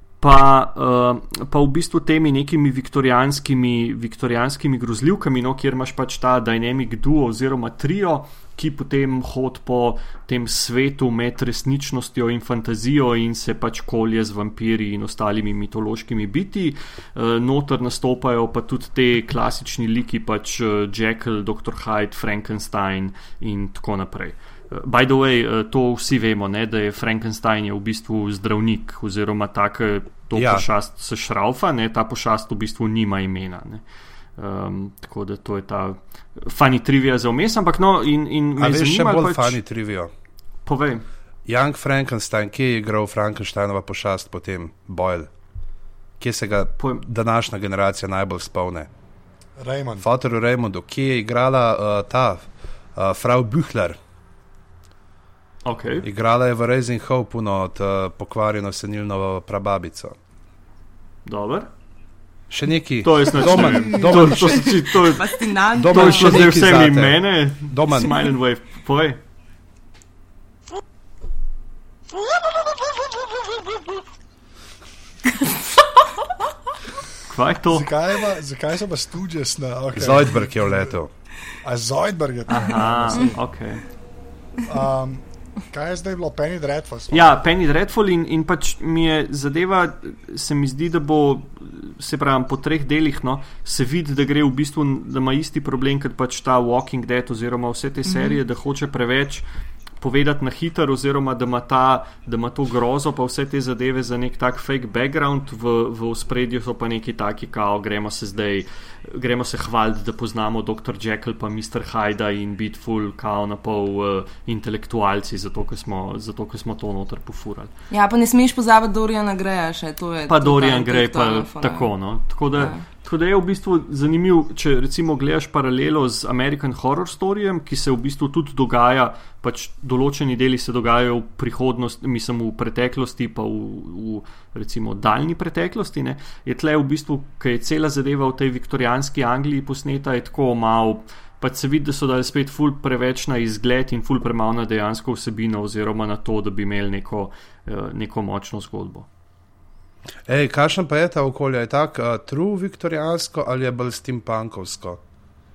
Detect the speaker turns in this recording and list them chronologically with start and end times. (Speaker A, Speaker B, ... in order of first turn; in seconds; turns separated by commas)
Speaker A: 0.2-33.8, Speaker B: 30.3-30.7, Speaker A: 34.4-39.6, Speaker B: 38.6-40.1, Speaker A: 40.7-41.1, Speaker B: 41.5-45.3, Speaker B: 46.2-48.9, Speaker A: 46.8-47.1, Speaker C: 49.6-50.1, Speaker B: 50.0-54.0, Speaker A: 55.6-56.1, Speaker B: 56.0-60.1, Speaker A: 61.2-61.7, Speaker B: 62.5-64.8, Speaker A: 63.0-69.2, Speaker D: 65.0-66.6, Speaker B: 65.8-68.1, Speaker A: 77.2-77.9, Speaker C: 77.7-81.0, Speaker B: 80.0-81.1, Speaker C: 81.6-83.4, Speaker A: 82.5-83.8, Speaker C: 84.7-87.4, Speaker A: 87.1-99.4, Speaker D: 98.1-98.4, Speaker A: 100.0-117.7, Speaker D: 117.9-121.9, Speaker A: 120.3-149.1, Speaker D: 122.5-122.8, Speaker B: 150.3-155.0